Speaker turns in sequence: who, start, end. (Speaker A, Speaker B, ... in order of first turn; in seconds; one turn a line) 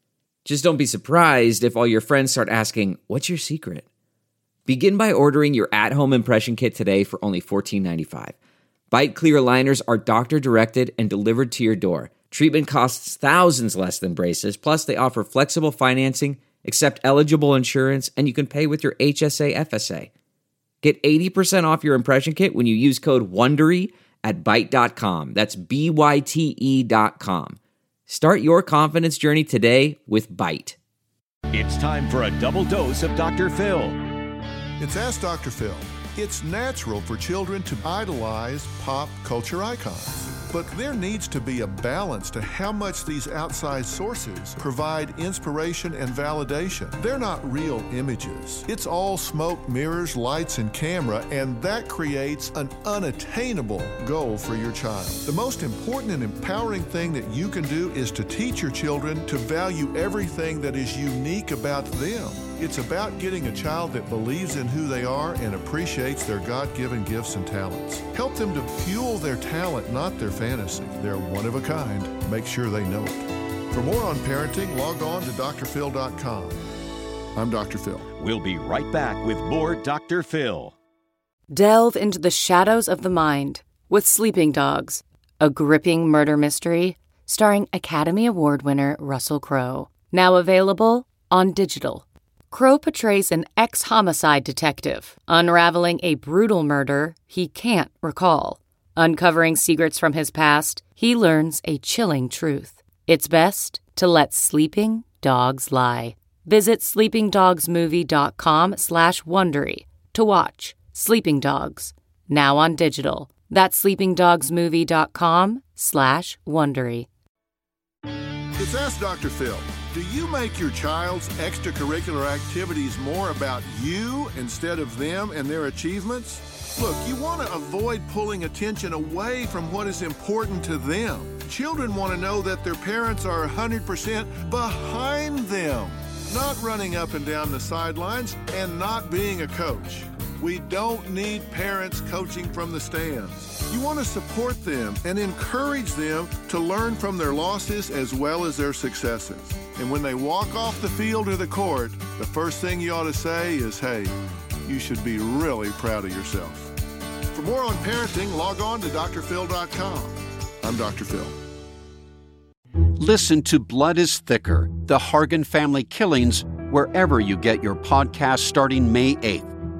Speaker A: 0.5-3.9
Speaker A: 4.7-8.3
Speaker A: 8.9-20.1
Speaker A: 20.8-27.6
Speaker A: 28.1-30.8
Speaker B: 31.5-34.0
Speaker C: 34.8-76.6
Speaker C: 77.3-78.1
Speaker B: 78.2-80.8
Speaker D: 81.5-117.1
Speaker C: 118.6-156.7
Speaker C: 157.3-161.3
Speaker E: 163.0-169.5